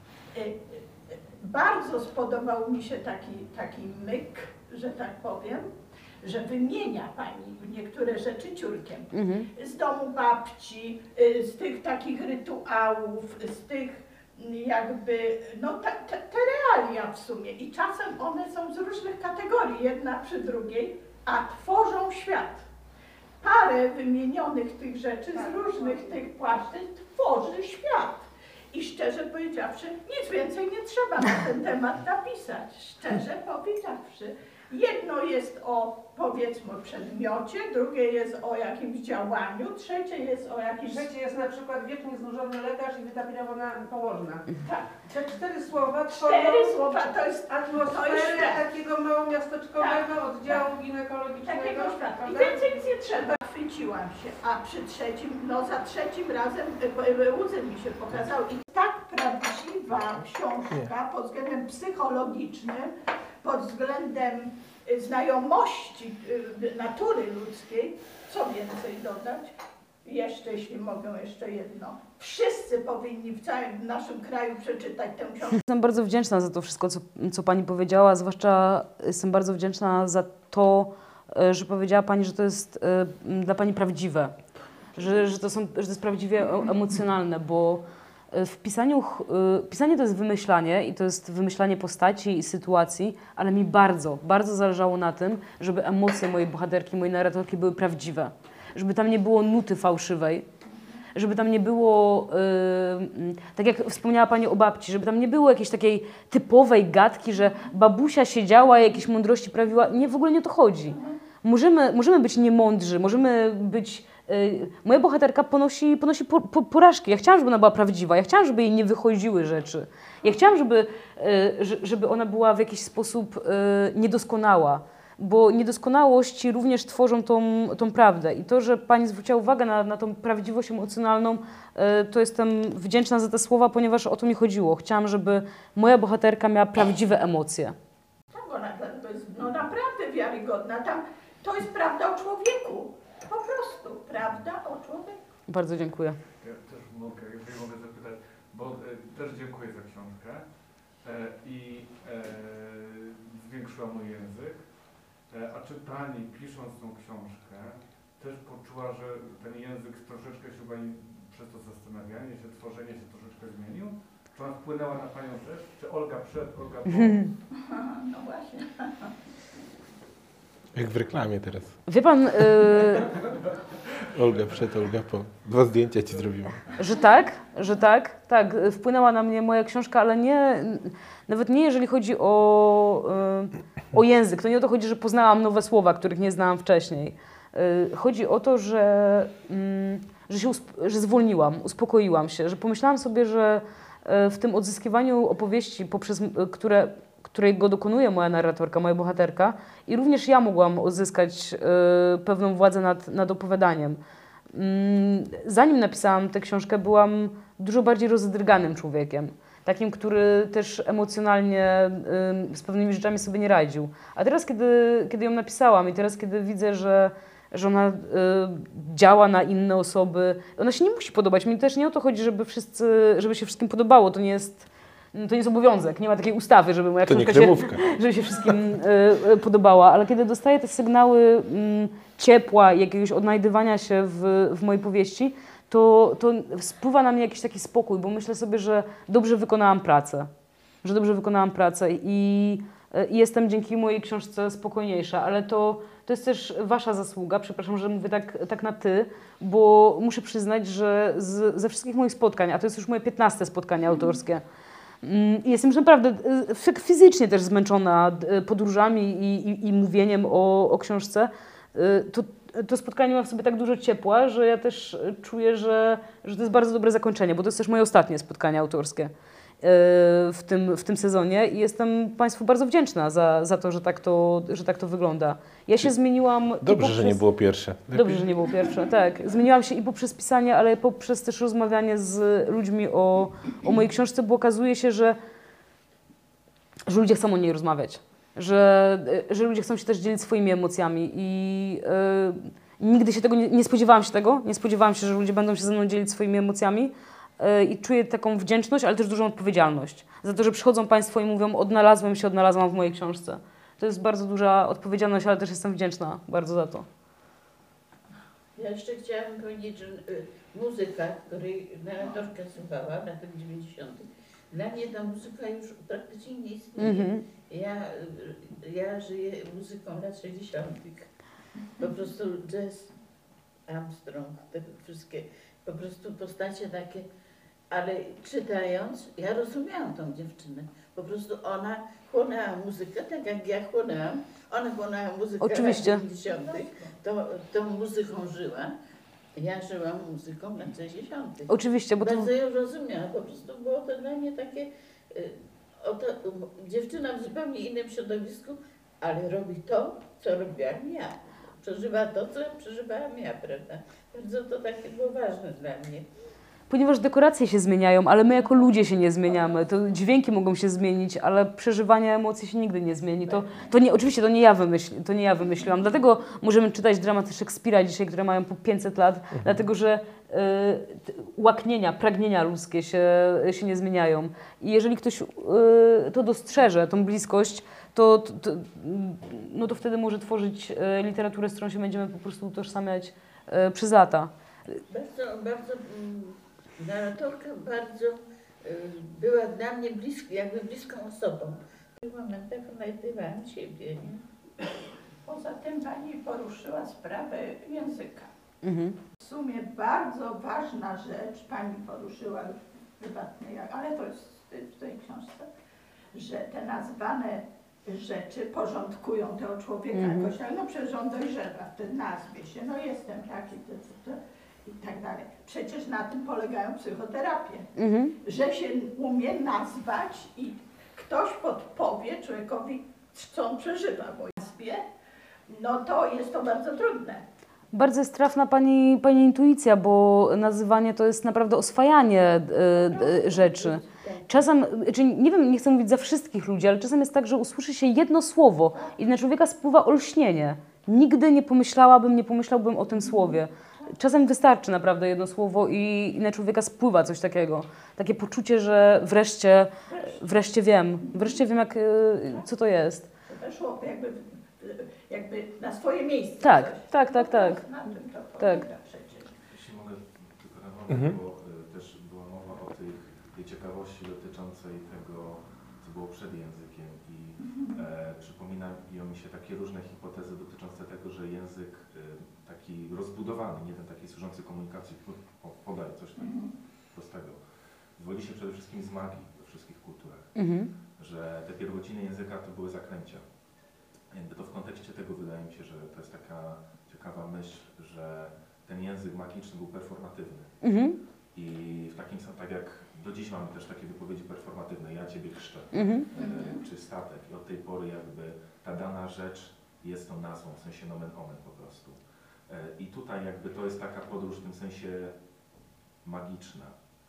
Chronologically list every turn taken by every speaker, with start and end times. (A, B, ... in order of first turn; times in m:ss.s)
0:00.3-0:05.7 A
0:06.2-0:22.6 A
0:09.1-0:09.5 B
0:23.4-0:41.1 A
0:25.3-0:26.2 C
0:40.8-0:53.4 C
0:44.6-0:44.9 A
0:46.2-0:48.6 A
0:49.8-0:50.7 A
0:51.4-1:09.5 A
1:10.0-1:15.6 A
1:15.6-1:24.4 B
1:25.0-1:40.5 B
1:41.2-2:17.8 B
2:18.3-2:25.2 A
2:25.5-2:26.2 B
2:26.4-2:47.3 D
2:47.0-2:47.3 B
2:47.6-2:49.1 A
2:50.7-2:51.8 E
2:51.9-2:53.1 B
2:54.1-2:56.6 E
2:56.8-3:24.0 B
3:24.5-4:00.3 B
3:47.1-3:47.8 E
4:00.8-4:14.4 B
4:15.0-4:37.2 B
4:36.6-4:38.3 E
4:37.9-4:45.2 B
4:46.9-5:06.9 B
5:08.6-5:21.1 F
5:16.8-5:17.2 B
5:21.8-5:22.9 F
5:23.7-5:27.1 F
5:27.7-5:38.7 F
5:35.4-5:36.0 B
5:36.3-5:36.7 A
5:39.4-5:56.1 F
5:41.5-5:42.3 B
5:56.7-6:24.3 B
6:09.3-6:09.6 E
6:24.9-6:34.1 F
6:35.2-6:38.3 A
6:38.6-6:39.0 B
6:39.2-6:45.5 A
6:46.1-6:57.7 A
6:49.9-6:50.3 B
6:57.8-6:58.2 B
6:58.2-7:04.8 A
7:05.5-7:07.2 A
7:07.7-7:33.1 B
7:12.9-7:14.2 A
7:29.9-7:30.2 A
7:33.3-7:39.4 A
7:36.4-7:37.6 B
7:38.4-7:38.7 B
7:39.5-8:03.3 G
7:40.9-7:41.2 E
7:47.5-7:47.7 A
7:56.2-7:56.5 A
8:00.4-8:00.7 B
8:04.1-8:10.6 G
8:10.6-8:11.0 B
8:11.3-8:25.2 G
8:15.7-8:16.1 B
8:16.2-8:16.5 A
8:26.0-8:26.8 G